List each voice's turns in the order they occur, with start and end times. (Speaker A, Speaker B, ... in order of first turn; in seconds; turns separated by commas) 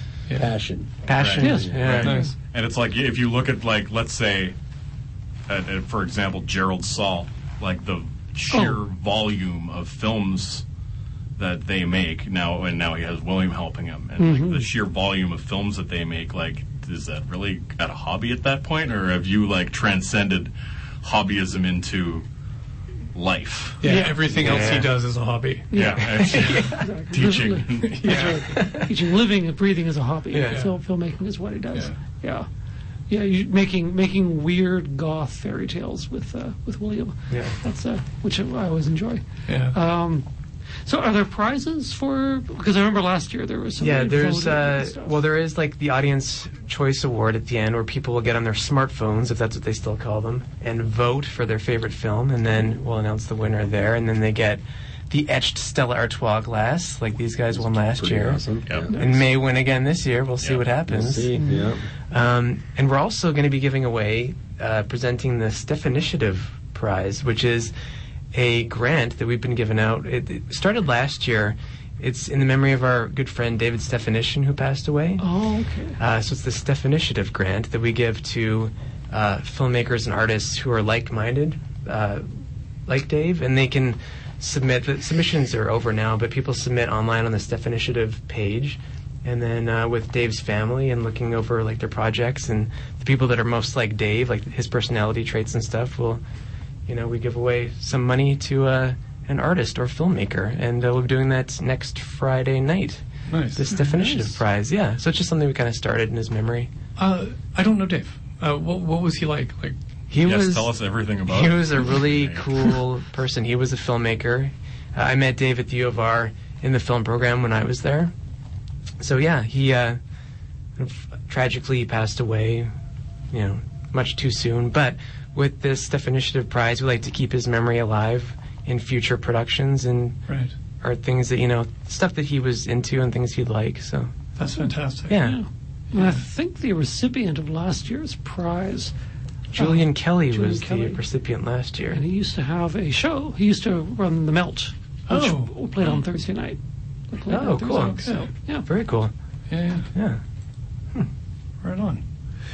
Speaker A: 0.4-1.0, Speaker B: 1.1-2.2, Speaker C: 1.2-4.6, Speaker D: 1.4-2.3, Speaker A: 1.5-1.8, Speaker E: 2.0-2.3, Speaker C: 5.5-10.7, Speaker D: 8.5-8.8, Speaker C: 11.4-22.3, Speaker D: 14.2-14.7, Speaker C: 23.1-24.5, Speaker E: 23.8-25.7, Speaker D: 23.9-24.3, Speaker B: 24.3-24.9, Speaker C: 25.7-28.3, Speaker D: 25.7-32.5, Speaker B: 26.0-26.9, Speaker E: 28.0-28.5, Speaker B: 28.5-28.9, Speaker B: 30.3-30.6, Speaker D: 33.1-40.3, Speaker B: 37.3-37.6, Speaker E: 39.5-39.8, Speaker D: 40.9-45.2, Speaker B: 43.8-61.4, Speaker A: 57.5-59.0, Speaker C: 58.7-59.0, Speaker C: 60.4-60.7, Speaker A: 60.9-61.9, Speaker D: 61.4-61.7, Speaker B: 62.1-67.7, Speaker B: 68.3-75.2, Speaker D: 75.2-76.0, Speaker B: 76.0-82.3, Speaker B: 82.9-96.2, Speaker B: 96.9-103.0, Speaker E: 103.3-103.8, Speaker B: 103.5-106.7, Speaker D: 103.7-104.4, Speaker E: 107.0-109.8, Speaker B: 110.1-118.1, Speaker C: 110.2-112.4, Speaker B: 119.0-120.0, Speaker B: 120.8-122.7, Speaker B: 123.3-130.2, Speaker E: 130.3-130.6, Speaker B: 130.8-134.1, Speaker E: 134.4-135.2, Speaker B: 135.1-135.4, Speaker D: 135.2-138.9, Speaker B: 139.5-142.0, Speaker D: 139.5-141.0, Speaker D: 141.9-146.6, Speaker E: 145.1-145.5, Speaker D: 147.1-148.7, Speaker B: 147.3-148.1, Speaker B: 148.7-149.1, Speaker E: 149.5-149.9, Speaker B: 149.9-150.2, Speaker E: 151.6-152.1